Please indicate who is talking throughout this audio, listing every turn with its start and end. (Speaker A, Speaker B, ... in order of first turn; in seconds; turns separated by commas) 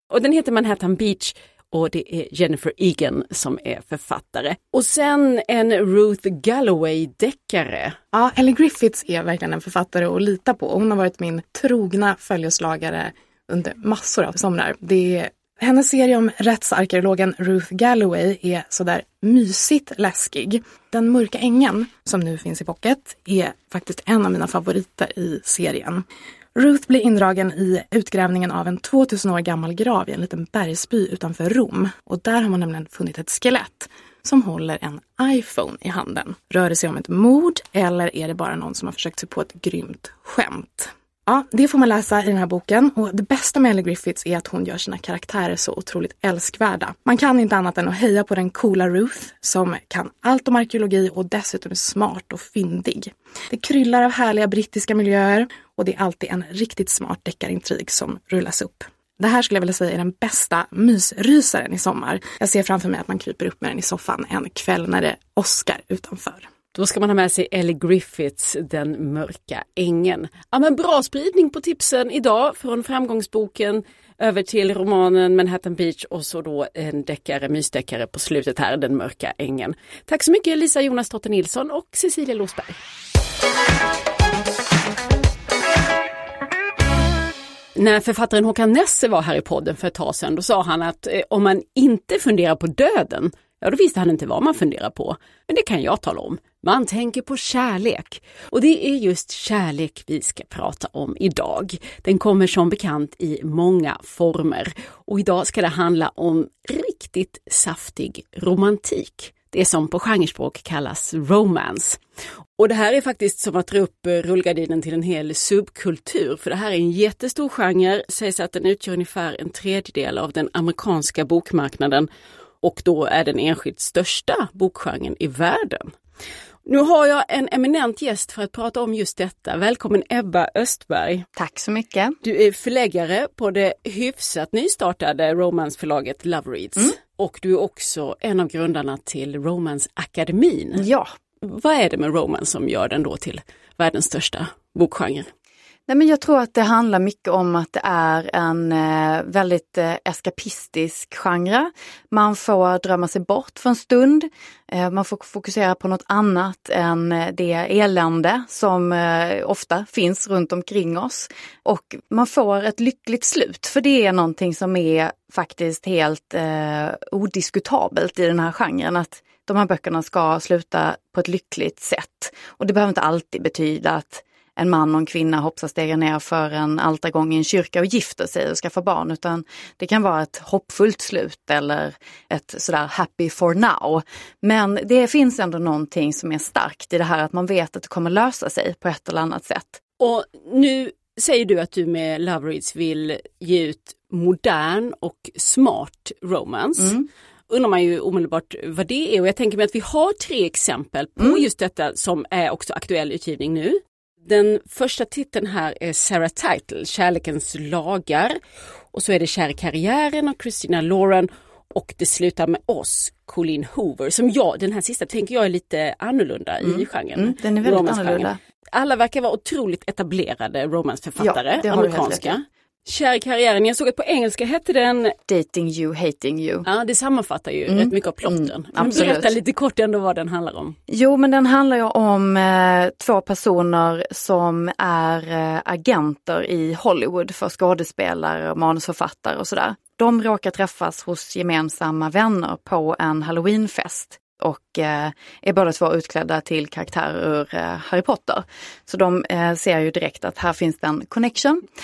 Speaker A: 0.1-8.0, Speaker B: 8.1-26.0, Speaker B: 26.5-66.5, Speaker A: 66.7-82.8, Speaker A: 87.8-112.0, Speaker A: 112.6-122.1, Speaker A: 122.6-125.9, Speaker A: 126.6-131.3, Speaker C: 131.3-132.2, Speaker A: 132.2-140.8, Speaker C: 140.8-141.1, Speaker A: 141.4-145.3, Speaker C: 145.9-189.8, Speaker A: 190.0-196.9, Speaker C: 196.8-197.1, Speaker A: 197.5-208.4, Speaker A: 208.9-225.2, Speaker C: 216.6-218.4, Speaker C: 221.2-222.3, Speaker C: 225.3-226.7, Speaker A: 226.6-230.8, Speaker C: 227.7-229.3, Speaker C: 230.9-251.6